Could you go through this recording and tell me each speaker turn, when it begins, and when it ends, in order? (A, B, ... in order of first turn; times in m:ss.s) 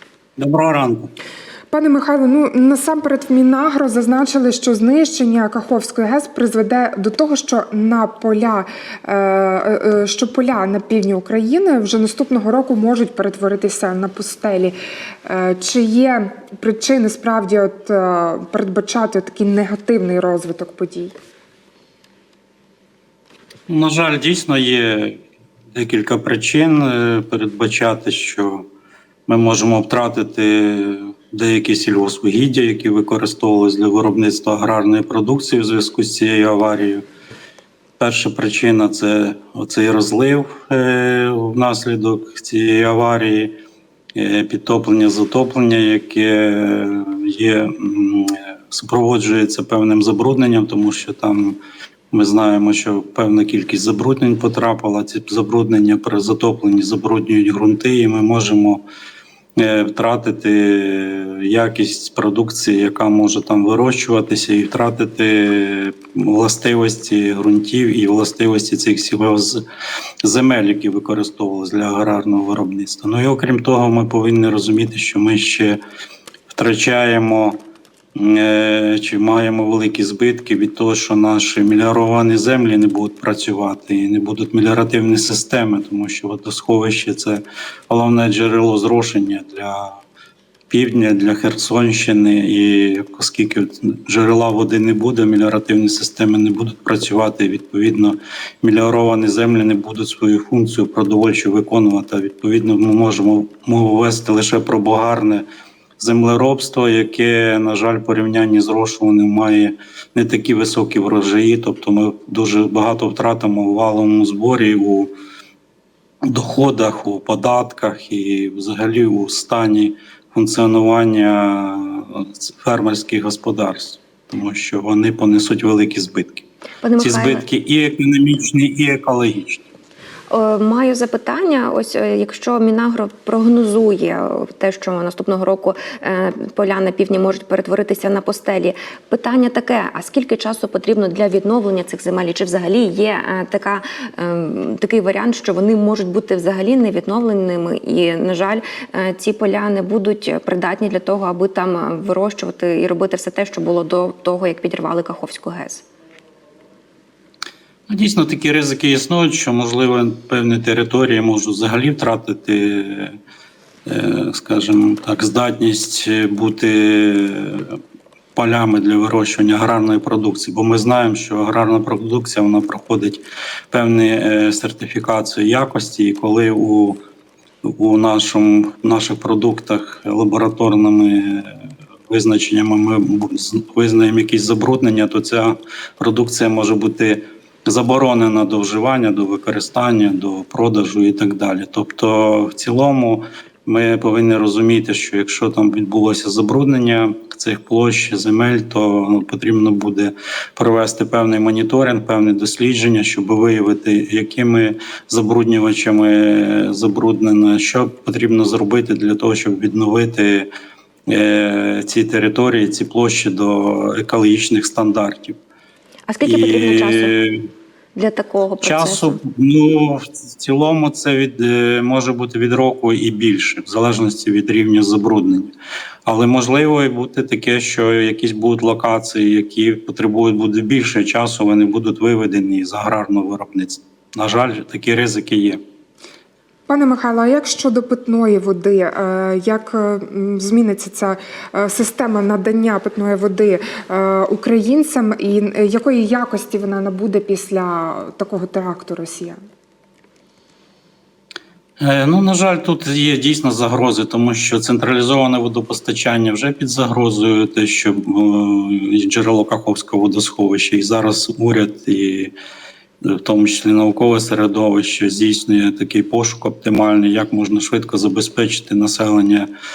0:00.4-0:01.1 A
0:01.7-0:21.1 B
0:23.7-0:28.7 A
0:29.3-0:37.0 A
0:38.0-0:43.5 A
0:44.1-0:51.6 A
0:52.1-0:58.8 A
0:59.6-1:09.6 A
1:10.2-1:15.8 A
1:16.5-1:17.6 A
1:18.1-1:30.0 A
1:30.7-1:45.4 A
1:46.0-1:55.1 A
1:56.3-2:06.4 A
2:06.8-2:07.4 C
2:07.0-2:09.6 A
2:10.3-2:35.8 C
2:37.9-2:43.2 A
2:43.9-2:47.8 A
2:48.4-2:57.0 A
2:57.6-3:30.5 A
3:31.1-3:35.4 A
3:36.1-3:37.1 C
3:36.2-3:37.4 A
3:38.0-3:39.2 C
3:38.6-3:45.5 A
3:46.1-3:55.6 A
3:56.7-4:09.4 B
4:11.8-4:22.3 A
4:23.0-4:29.5 A